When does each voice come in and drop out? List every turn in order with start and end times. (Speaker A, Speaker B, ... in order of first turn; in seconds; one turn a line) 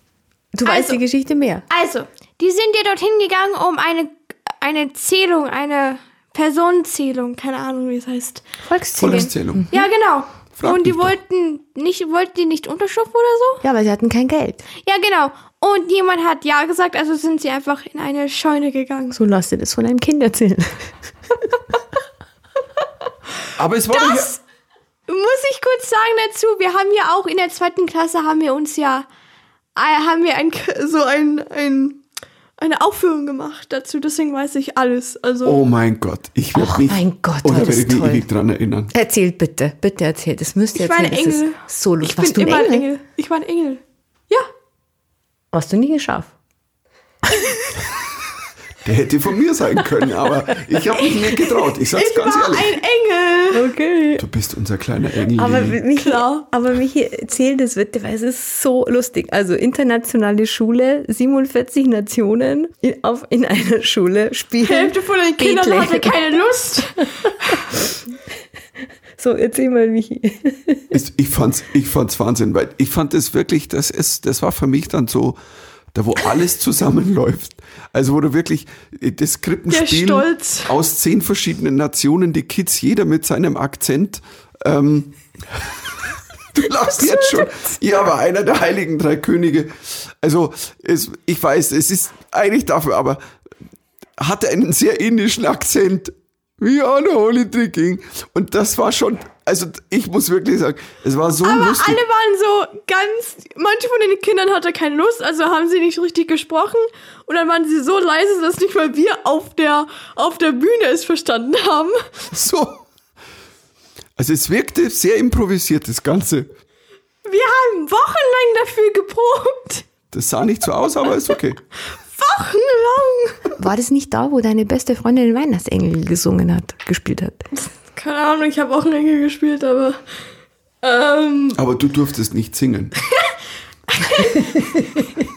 Speaker A: 0.5-1.6
Speaker B: 0.6-1.0
Speaker B: 1.7-8.5
Speaker A: 8.7-9.9
Speaker C: 9.0-9.7
Speaker B: 9.1-13.6
Speaker C: 10.6-11.2
Speaker A: 13.6-14.7
Speaker B: 14.8-19.2
Speaker A: 19.1-21.7
Speaker C: 23.6-24.3
Speaker B: 23.9-24.4
Speaker B: 25.1-29.1
Speaker B: 29.8-32.0
Speaker B: 32.6-35.6
Speaker C: 35.5-38.9
Speaker A: 36.5-38.3
Speaker A: 38.9-42.9
Speaker B: 40.8-44.5
Speaker A: 45.5-46.3
Speaker C: 48.8-52.8
Speaker B: 51.1-53.7
Speaker A: 53.5-54.2
Speaker C: 54.2-55.8
Speaker A: 55.4-66.4
Speaker B: 56.0-56.5
Speaker B: 64.6-67.7
Speaker A: 67.0-67.8
Speaker A: 69.2-70.9
Speaker C: 70.9-75.4
Speaker C: 75.9-93.2
Speaker B: 79.7-80.7
Speaker B: 87.1-87.5
Speaker C: 94.2-102.0
Speaker B: 101.4-112.3
Speaker C: 112.3-112.8
Speaker C: 114.2-116.5
Speaker B: 117.2-119.9
Speaker C: 120.1-121.6
Speaker B: 122.1-123.5
Speaker A: 123.6-127.4
Speaker B: 127.5-130.0
Speaker B: 130.8-131.6
Speaker C: 131.5-132.9
Speaker B: 133.9-135.1
Speaker A: 134.6-134.8